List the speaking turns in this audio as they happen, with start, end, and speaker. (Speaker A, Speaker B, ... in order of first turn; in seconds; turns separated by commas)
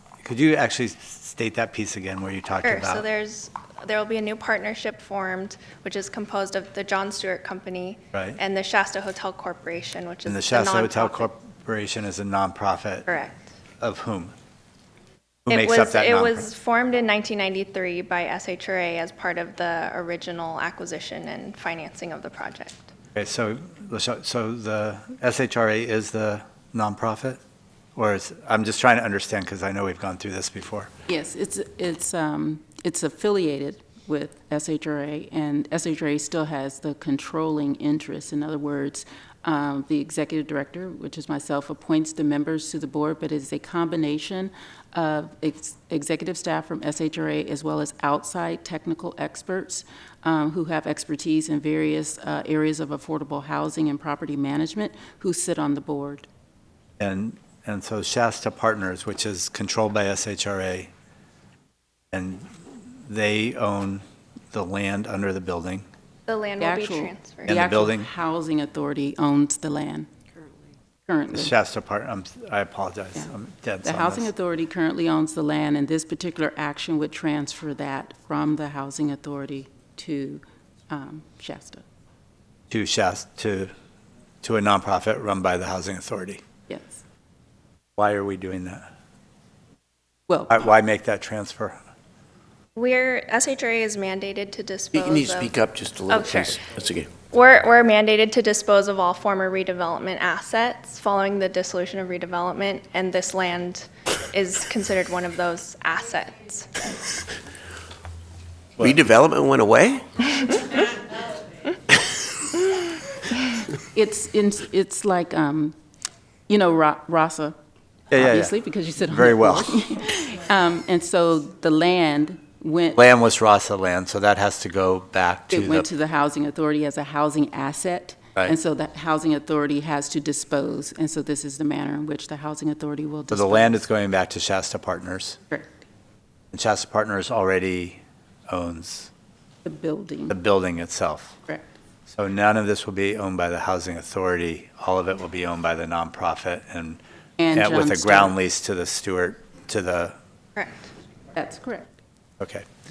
Speaker A: 0.2-3.0, Speaker B: 2.6-11.3, Speaker A: 8.1-8.4, Speaker A: 10.2-13.1, Speaker B: 13.1-13.5, Speaker A: 13.8-14.3, Speaker A: 15.5-16.5, Speaker B: 15.5-22.9, Speaker A: 23.1-27.4, Speaker A: 28.0-30.9, Speaker C: 31.1-56.3, Speaker A: 57.0-60.9, Speaker A: 62.1-62.5, Speaker A: 63.1-65.9, Speaker B: 66.3-67.5, Speaker C: 66.6-70.1, Speaker A: 67.5-68.1, Speaker C: 71.1-71.5, Speaker A: 71.3-74.3, Speaker C: 73.8-81.8, Speaker A: 82.7-83.7, Speaker A: 84.4-86.4, Speaker C: 86.7-87.0, Speaker A: 88.0-88.9, Speaker C: 90.3-90.6, Speaker A: 90.5-91.8, Speaker B: 92.8-95.5, Speaker D: 94.9-97.2, Speaker B: 96.1-96.7, Speaker B: 97.3-107.1, Speaker D: 108.8-110.0, Speaker C: 113.7-115.8, Speaker C: 116.5-117.6, Speaker A: 118.1-118.5, Speaker C: 118.1-123.1, Speaker A: 119.1-119.7, Speaker A: 123.0-125.9, Speaker C: 125.5-133.8, Speaker A: 133.3-135.4, Speaker C: 135.5-135.8, Speaker A: 136.5-139.1, Speaker C: 139.6-140.4, Speaker A: 140.3-141.4, Speaker A: 142.1-150.2, Speaker C: 147.4-148.3, Speaker B: 150.6-150.9, Speaker C: 151.3-151.9, Speaker A: 152.4-152.7